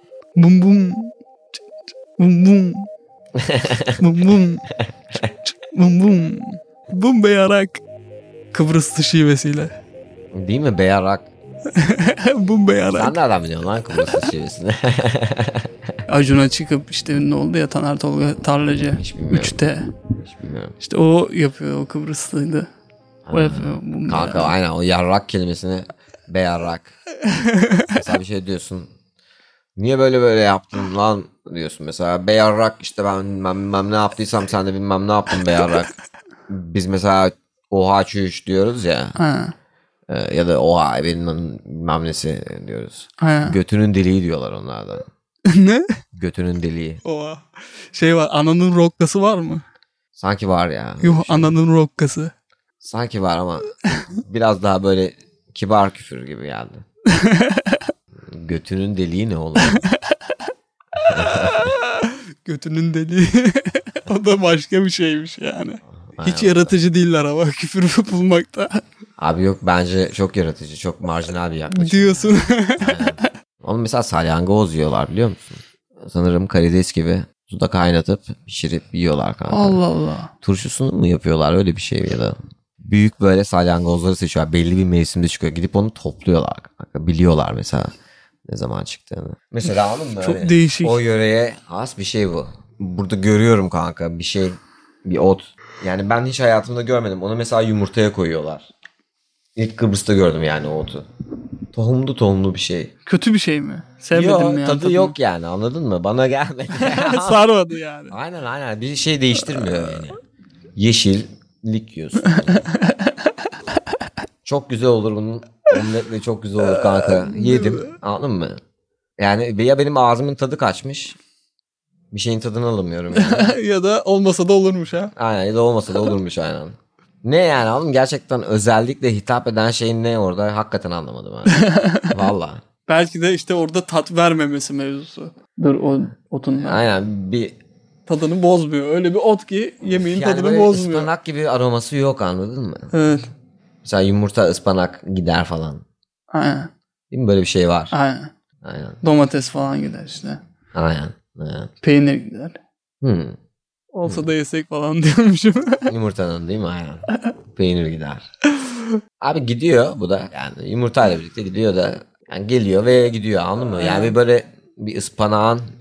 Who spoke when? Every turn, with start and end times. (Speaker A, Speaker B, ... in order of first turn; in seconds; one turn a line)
Speaker A: 0.4-1.1
Speaker A: 2.2-2.9
Speaker B: 3.4-4.0
Speaker A: 4.0-4.7
Speaker A: 5.5-7.8
Speaker A: 8.5-9.7
Speaker B: 10.3-11.3
Speaker A: 11.8-13.2
Speaker B: 12.9-15.7
Speaker A: 16.1-19.9
Speaker B: 18.9-19.7
Speaker B: 20.2-20.8
Speaker A: 20.8-22.7
Speaker B: 23.3-26.9
Speaker A: 23.3-24.5
Speaker A: 27.3-27.8
Speaker B: 27.9-28.9
Speaker B: 29.8-35.9
Speaker B: 36.5-39.2
Speaker A: 39.2-39.5
Speaker B: 40.1-45.0
Speaker A: 43.2-43.6
Speaker A: 45.5-45.9
Speaker B: 46.1-47.0
Speaker A: 47.0-49.6
Speaker B: 50.2-51.6
Speaker A: 51.0-52.3
Speaker B: 52.8-56.8
Speaker A: 57.1-57.9
Speaker B: 58.3-59.8
Speaker A: 59.6-59.9
Speaker B: 61.1-61.8
Speaker A: 61.2-68.8
Speaker B: 66.0-66.7
Speaker B: 69.2-79.8
Speaker A: 71.7-73.2
Speaker A: 79.5-80.3
Speaker B: 80.4-87.9
Speaker B: 88.5-98.7
Speaker A: 90.2-91.0
Speaker B: 99.6-101.1
Speaker B: 101.7-102.9
Speaker A: 103.1-105.2
Speaker B: 104.1-107.4
Speaker A: 106.7-108.2
Speaker B: 108.1-110.2
Speaker A: 109.5-110.0
Speaker B: 110.8-112.7
Speaker A: 112.2-113.3
Speaker B: 114.4-118.6
Speaker A: 116.6-117.9
Speaker B: 119.2-121.2
Speaker B: 122.1-123.5
Speaker A: 123.1-125.1
Speaker B: 125.2-131.6
Speaker A: 131.5-132.1
Speaker B: 132.1-132.6
Speaker A: 132.9-136.8
Speaker B: 136.6-137.5
Speaker A: 138.1-141.1
Speaker B: 139.9-142.9
Speaker A: 142.9-143.3
Speaker B: 143.8-145.8
Speaker A: 146.3-146.7
Speaker B: 147.1-147.9
Speaker A: 147.9-148.3
Speaker B: 148.6-149.0
Speaker A: 149.0-150.4
Speaker B: 150.7-151.7
Speaker A: 151.8-152.6
Speaker B: 153.0-153.4
Speaker A: 153.9-155.9
Speaker B: 154.1-154.3
Speaker B: 155.9-158.2
Speaker B: 159.2-165.7
Speaker A: 163.8-164.2